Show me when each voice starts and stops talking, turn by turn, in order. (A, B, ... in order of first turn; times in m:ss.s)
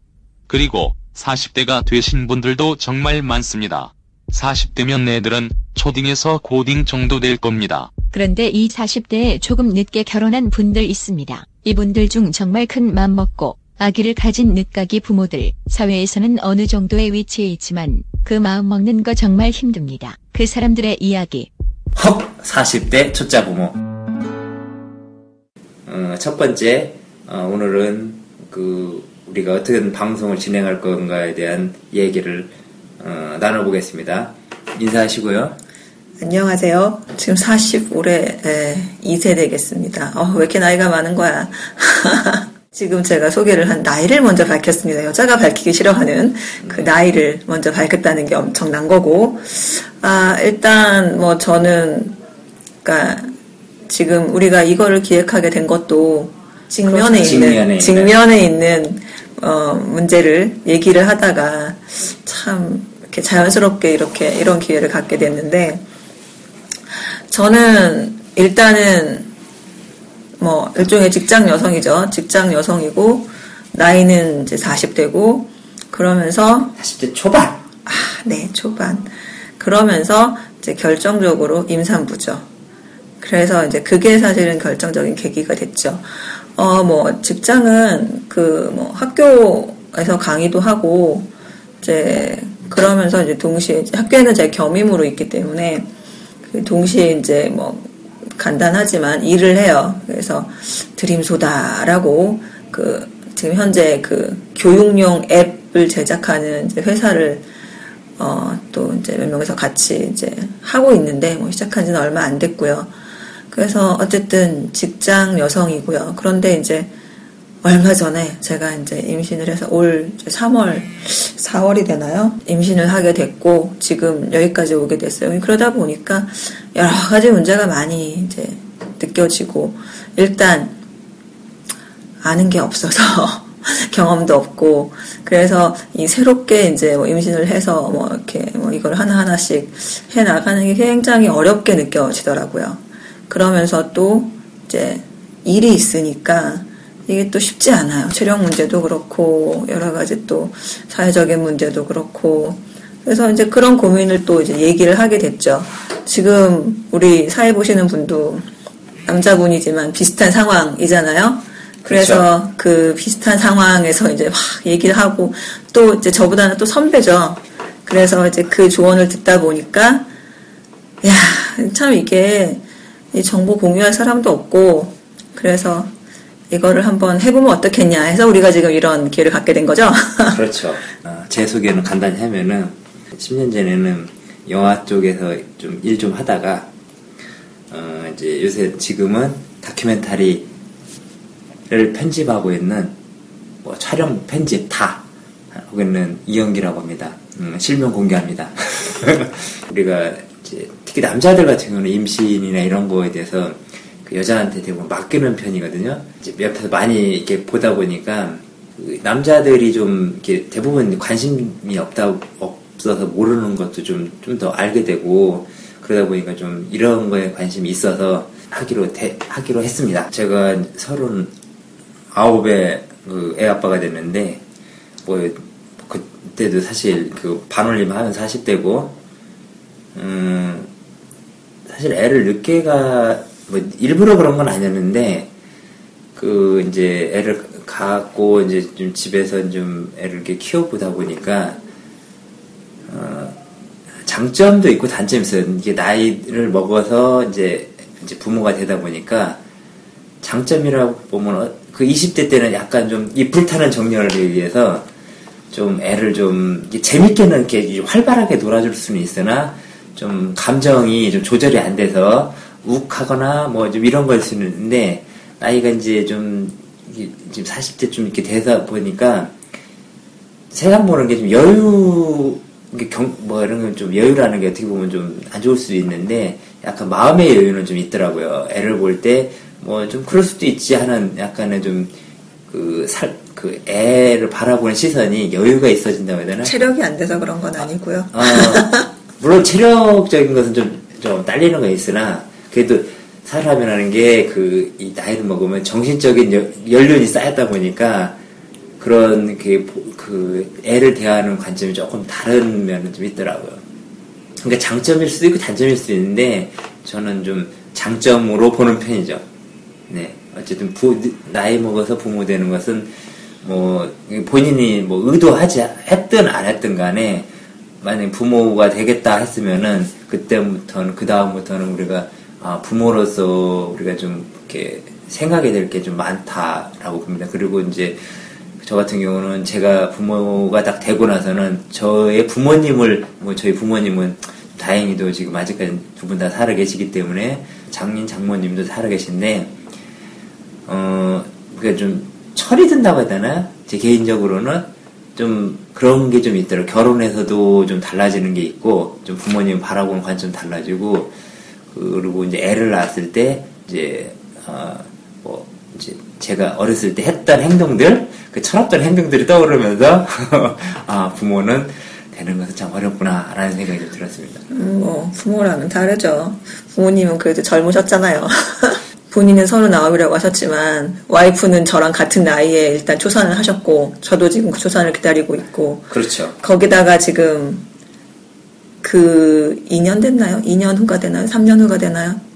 0:00.5-0:07.9 A
0:08.1-0:21.5 B
0:21.9-0:23.8 C
0:25.8-0:35.6 C
0:36.2-0:52.2 D
0:52.8-0:53.3 D
0:53.9-1:05.8 D
0:56.8-0:58.2 C
1:07.3-1:09.3 D
1:10.4-1:16.7 D
1:16.8-1:17.6 C
1:17.8-1:22.4 D
1:23.2-1:31.3 D
1:31.8-1:35.9 D
1:36.4-1:47.4 D
1:48.2-1:52.9 D
1:53.5-1:56.9 D
1:57.6-2:10.8 D
2:12.2-2:38.5 D
2:39.0-2:50.1 D
2:41.8-2:42.2 C
2:51.0-2:52.6 D
2:53.1-2:55.9 D
2:56.5-3:00.4 D
3:00.3-3:06.7 C
3:07.7-3:10.5 C
3:11.7-3:12.9 C
3:13.6-3:41.3 C
3:42.1-3:44.4 C
3:45.0-3:49.0 C
3:49.9-3:50.7 C
3:51.7-3:55.3 C
3:56.2-4:01.6 C
4:02.9-4:03.4 C
4:04.0-4:09.4 C
4:10.2-4:14.9 C
4:15.5-4:29.4 C
4:30.5-4:41.9 C
4:42.5-4:46.5 C
4:46.4-4:48.9 D
4:48.1-4:58.2 C
4:58.8-5:03.6 C
5:04.4-5:09.2 C
5:09.9-5:12.9 C
5:13.4-5:17.3 C
5:17.8-5:28.0 C
5:28.6-5:39.5 C
5:40.6-5:51.1 C
5:51.7-6:04.4 C
6:04.5-6:17.6 D
6:15.9-6:16.4 C
6:18.8-6:22.2 D